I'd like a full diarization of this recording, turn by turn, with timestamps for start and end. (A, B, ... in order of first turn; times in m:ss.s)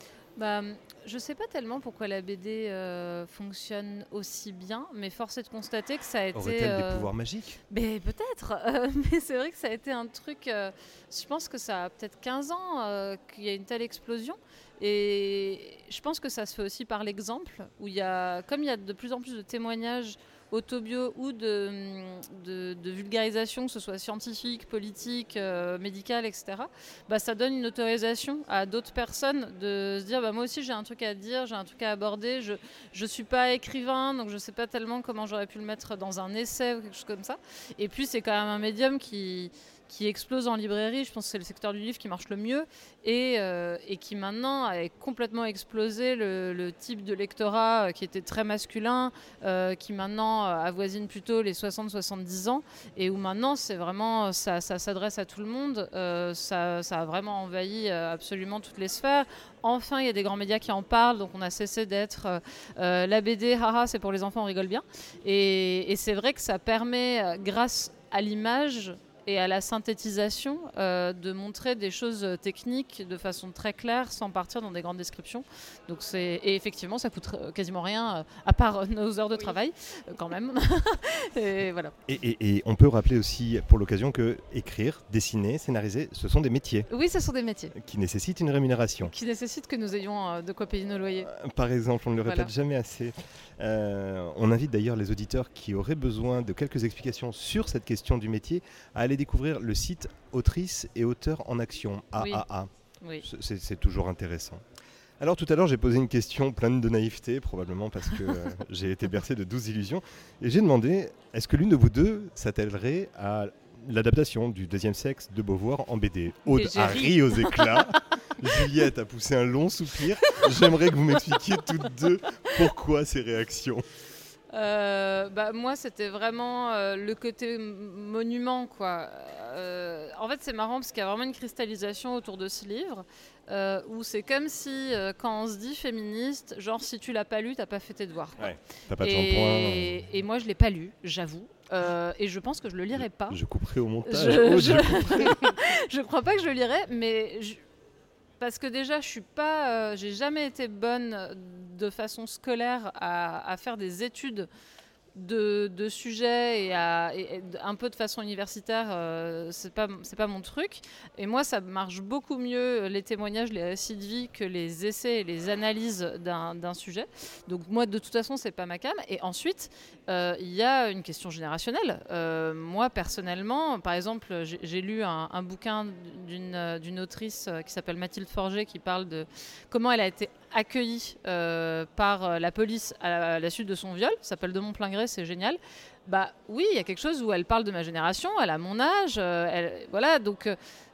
0:00.4-0:07.1 A
0:06.3-0:07.6 B
0:07.7-1:22.0 A
1:22.1-1:26.9 B
1:26.9-1:27.7 A
1:27.8-1:29.1 B
1:29.0-1:31.3 A
1:31.2-1:44.6 B
1:32.2-1:32.5 A
1:42.2-1:42.4 A
1:45.2-2:03.8 B
1:56.5-1:58.0 A
2:04.5-2:18.5 A
2:18.4-2:20.0 B
2:19.0-2:23.4 A
2:23.0-2:25.5 B
2:24.0-2:27.6 A
2:28.4-2:34.5 A
2:35.2-3:10.6 A